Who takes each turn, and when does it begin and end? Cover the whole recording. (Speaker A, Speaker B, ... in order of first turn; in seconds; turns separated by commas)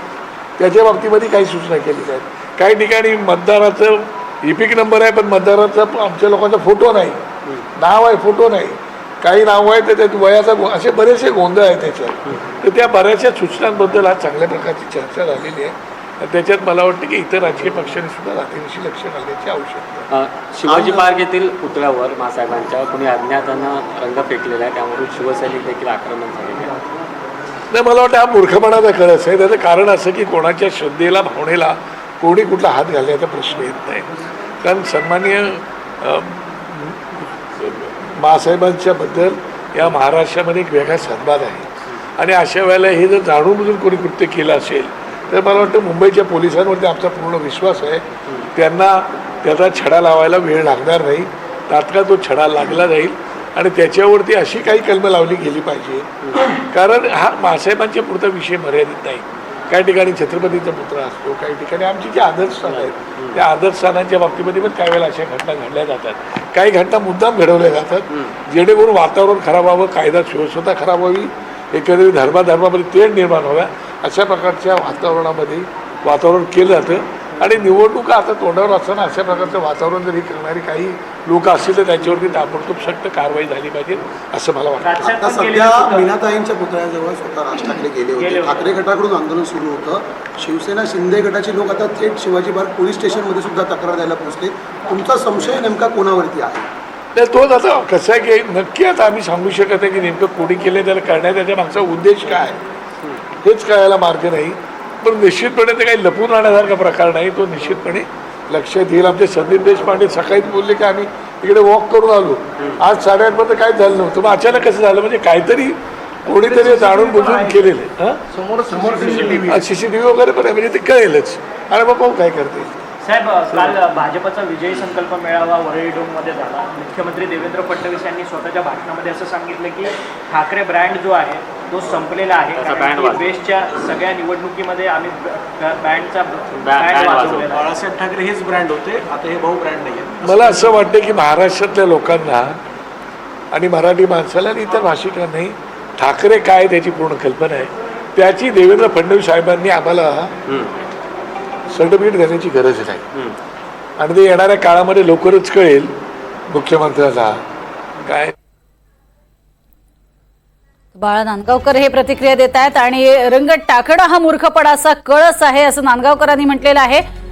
Speaker A: 0.6-20.1, Speaker B: 20.1-26.7, Speaker C: 20.7-21.1, Speaker A: 27.7-34.1, Speaker A: 34.6-85.2, Speaker B: 62.7-63.4, Speaker D: 84.8-86.1, Speaker C: 85.2-96.7, Speaker D: 88.2-88.7, Speaker A: 97.2-102.6, Speaker A: 103.4-118.2, Speaker E: 116.4-117.4, Speaker E: 118.4-119.4, Speaker C: 118.7-119.5, Speaker A: 119.3-122.9, Speaker D: 123.0-137.7, Speaker B: 132.6-133.3, Speaker B: 136.5-137.5, Speaker E: 137.5-140.5, Speaker A: 140.2-142.6, Speaker A: 143.5-150.4, Speaker B: 150.5-150.7, Speaker A: 151.7-153.1, Speaker A: 154.0-155.9, Speaker A: 156.5-157.4, Speaker A: 158.0-158.3, Speaker F: 161.0-167.0